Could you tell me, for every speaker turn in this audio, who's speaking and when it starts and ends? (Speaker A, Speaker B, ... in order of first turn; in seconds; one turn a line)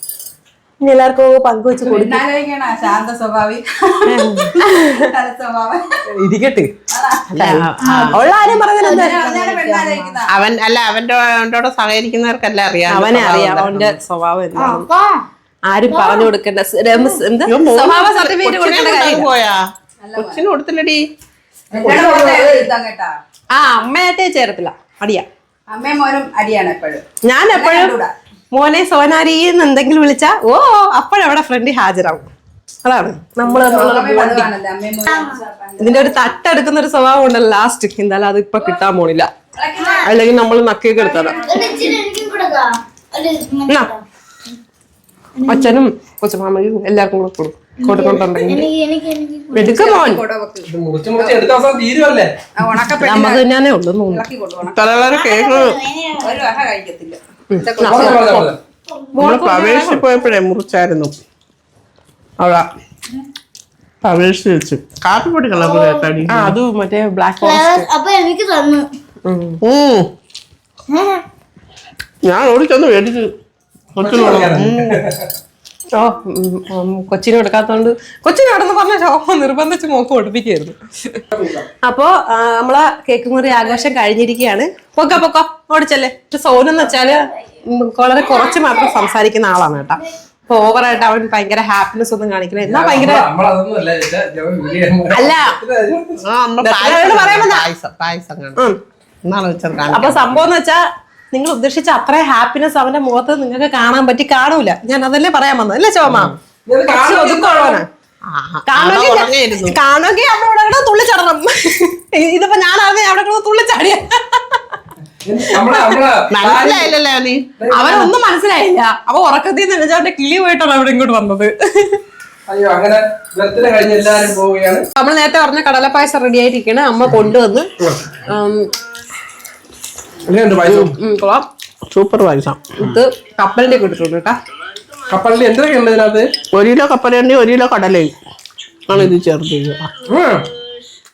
Speaker A: 0.8-2.2
Speaker B: 1.8-5.9
Speaker A: 4.1-5.0
Speaker A: 6.1-6.7
Speaker B: 6.9-7.3
Speaker A: 7.3-10.2
Speaker C: 7.3-8.2
Speaker B: 8.8-10.3
Speaker C: 10.3-14.0
Speaker A: 12.9-14.9
Speaker D: 14.6-15.2
Speaker A: 15.7-19.3
Speaker D: 15.9-16.3
Speaker C: 17.5-19.6
Speaker B: 20.0-20.4
Speaker C: 20.2-21.0
Speaker B: 21.7-23.1
Speaker E: 21.7-22.6
Speaker A: 23.5-25.3
Speaker B: 25.7-28.1
Speaker A: 27.2-27.9
Speaker A: 28.5-32.3
Speaker A: 32.8-34.5
Speaker B: 33.4-36.3
Speaker D: 35.1-35.4
Speaker A: 35.8-39.3
Speaker B: 39.6-40.1
Speaker A: 40.0-41.4
Speaker B: 41.0-42.1
Speaker D: 41.4-44.0
Speaker A: 43.7-43.9
Speaker D: 45.4-45.8
Speaker A: 45.5-48.7
Speaker D: 47.8-49.7
Speaker A: 49.5-50.2
Speaker B: 49.5-51.4
Speaker E: 50.7-52.3
Speaker B: 52.6-53.4
Speaker A: 53.0-54.2
Speaker B: 54.1-54.8
Speaker C: 54.7-55.8
Speaker D: 55.1-56.5
Speaker B: 56.2-58.4
Speaker A: 57.5-58.5
Speaker E: 57.8-58.6
Speaker C: 57.8-58.3
Speaker D: 58.9-59.1
Speaker A: 59.1-60.0
Speaker C: 59.2-61.1
Speaker C: 62.4-62.7
Speaker C: 64.0-66.6
Speaker D: 65.6-66.1
Speaker A: 66.3-67.9
Speaker D: 67.4-68.9
Speaker A: 69.3-69.6
Speaker C: 69.6-70.1
Speaker A: 70.9-71.2
Speaker C: 72.3-73.3
Speaker C: 74.0-75.0
Speaker E: 74.0-75.3
Speaker A: 76.0-80.8
Speaker E: 81.3-81.7
Speaker A: 81.8-93.3
Speaker E: 92.7-96.2
Speaker A: 95.1-95.5
Speaker C: 96.2-98.7
Speaker A: 96.6-97.7
Speaker C: 99.2-100.5
Speaker A: 99.9-106.3
Speaker E: 106.7-107.8
Speaker A: 106.9-107.8
Speaker C: 108.3-109.8
Speaker A: 108.7-114.6
Speaker E: 115.2-116.9
Speaker A: 115.5-115.9
Speaker C: 116.3-117.5
Speaker E: 117.6-118.1
Speaker A: 117.7-122.0
Speaker E: 122.5-124.8
Speaker A: 125.0-127.7
Speaker E: 127.8-128.1
Speaker A: 128.3-128.7
Speaker E: 130.3-130.9
Speaker A: 130.7-131.5
Speaker C: 131.9-132.8
Speaker A: 132.8-134.3
Speaker E: 135.1-136.3
Speaker C: 136.5-138.2
Speaker C: 138.9-139.9
Speaker E: 140.1-140.4